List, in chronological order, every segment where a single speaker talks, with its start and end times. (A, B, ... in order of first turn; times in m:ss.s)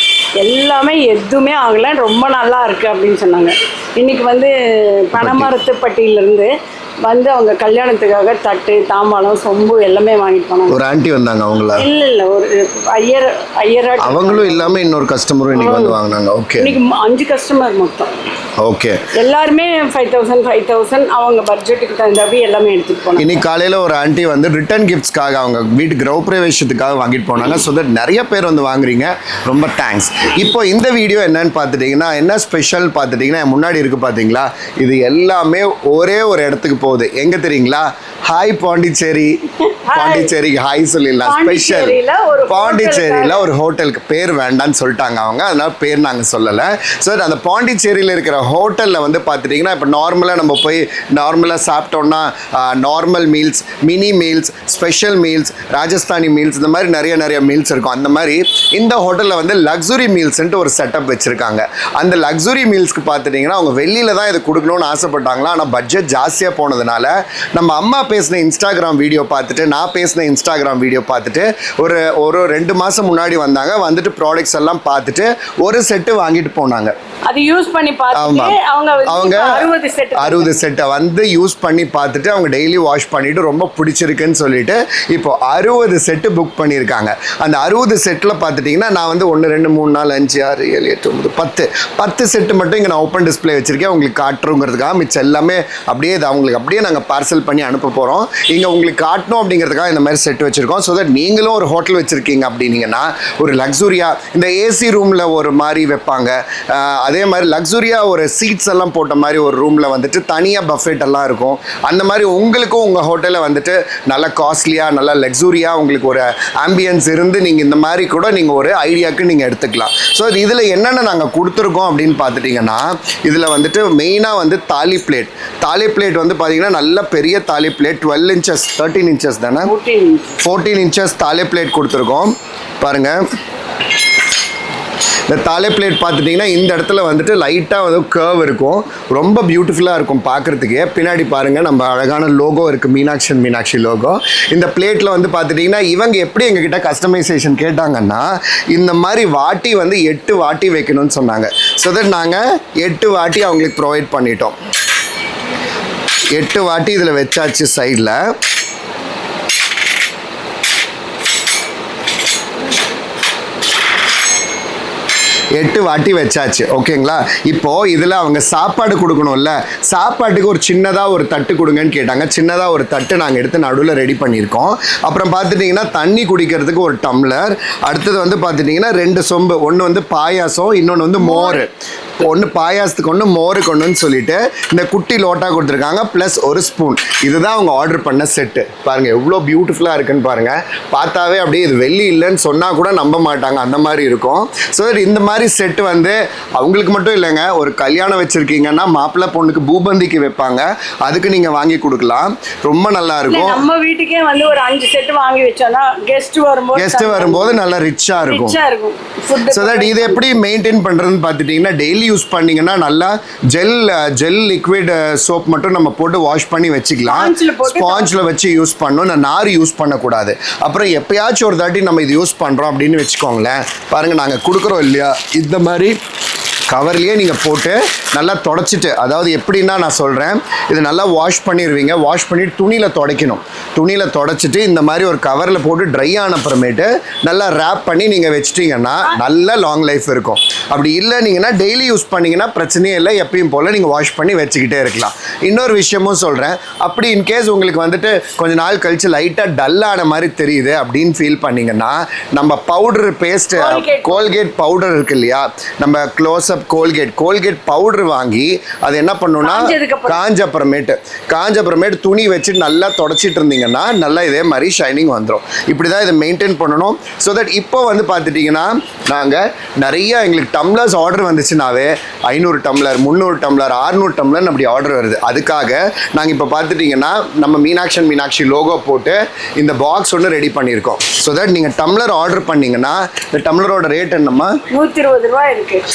0:00.4-0:06.5 A
0:05.2-0:05.5 B
0:07.0-0:10.8 A
0:10.7-0:11.8 B
0:11.8-0:14.8 A
0:14.0-0:16.7 B
0:15.5-0:16.0 A
0:16.6-0:18.1 A
0:18.6-0:19.0 B
0:19.1-0:23.4 A
0:23.2-0:39.4 B
0:39.8-0:40.3 A
0:39.9-0:42.0 B
0:41.2-0:43.5 A
0:42.5-1:16.9 B
1:17.3-1:20.6 A
1:18.1-1:18.6 B
1:19.1-1:19.5 B
1:20.2-2:09.7 B
2:09.6-2:10.4 A
2:10.4-2:13.2 B
2:15.3-2:34.5 B
2:36.3-2:38.2 B
2:45.6-3:23.6 B
3:01.2-3:01.6 A
3:23.3-3:27.6 A
3:26.7-3:28.6 B
3:28.2-3:30.2 A
3:29.5-3:46.0 B
3:37.0-3:38.1 A
3:46.7-4:44.6 B
4:13.6-4:14.3 A
4:19.4-4:20.2 A
4:44.7-4:45.8 A